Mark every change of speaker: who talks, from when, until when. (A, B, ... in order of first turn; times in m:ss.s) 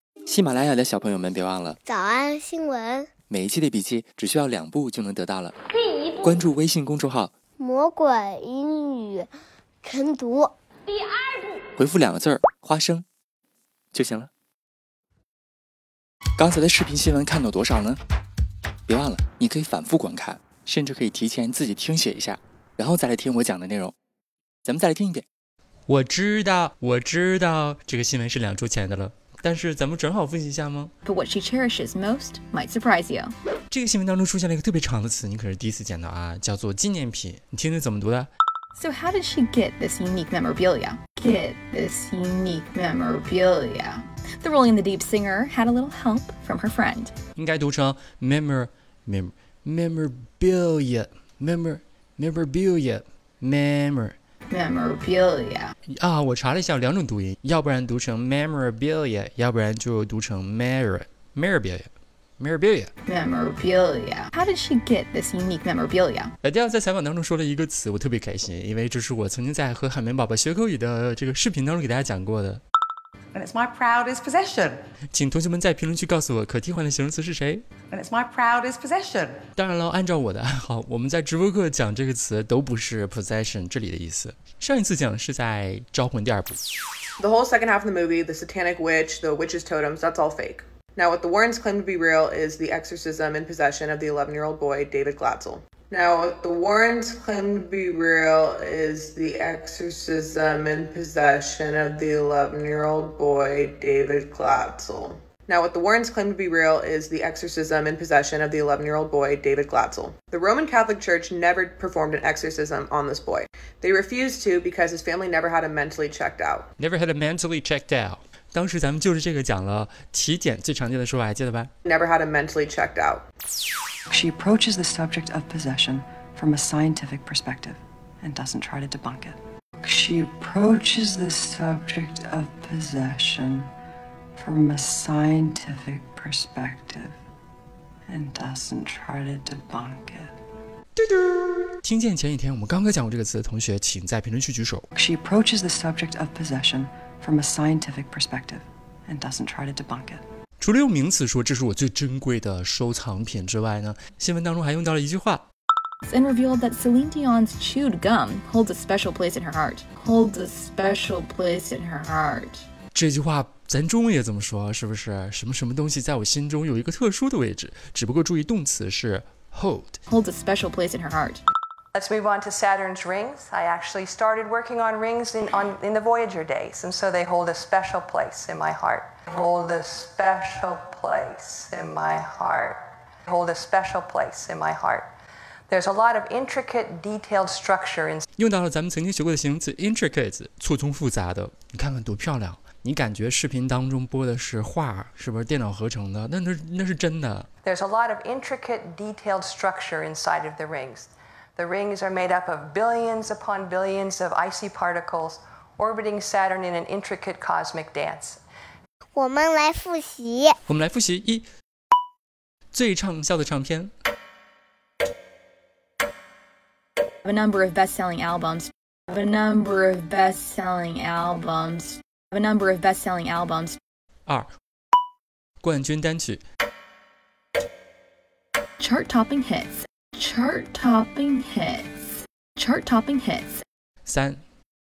0:00.3-0:01.8 A
0:01.8-0:03.1 B
0:03.3-0:05.5 A
0:06.2-0:07.3 A
0:07.6-0:09.3 B
0:09.8-0:10.5 B
0:11.8-0:13.0 A
0:13.9-0:14.3 A
0:16.4-0:18.0 A
0:18.9-0:23.9 A
0:24.6-0:25.2 A
0:25.9-0:30.9 C
0:31.0-0:33.3 D
0:33.7-0:38.3 C
0:38.8-0:47.1 D
0:47.4-0:54.2 C
0:54.5-0:55.7 D
0:55.9-1:02.9 C
1:03.1-1:06.3 D
1:06.4-1:12.6 C
1:13.3-1:14.8 E
1:15.1-1:17.6 C
1:17.9-1:19.4 E
1:19.6-1:26.6 C
1:27.2-1:56.7 F
1:56.8-2:01.7 C
2:01.8-2:03.2 F
2:04.1-2:13.7 G
2:14.4-2:17.2 G
2:18.1-2:20.3 G
2:21.0-2:24.9 C
2:25.0-2:30.2 G
2:30.6-2:35.5 C
2:36.1-2:42.6 D
2:42.9-2:50.0 C
2:50.1-2:51.4 D
2:51.9-3:05.1 H
3:05.7-3:08.2 H
3:08.4-3:17.5 C
3:17.6-3:28.4 H
3:29.2-3:30.6 B
3:30.7-3:31.5 C
3:32.7-3:33.9 C
3:37.2-3:43.8 D
3:45.6-3:46.4 C
3:48.8-3:53.6 D
3:54.1-3:54.4 C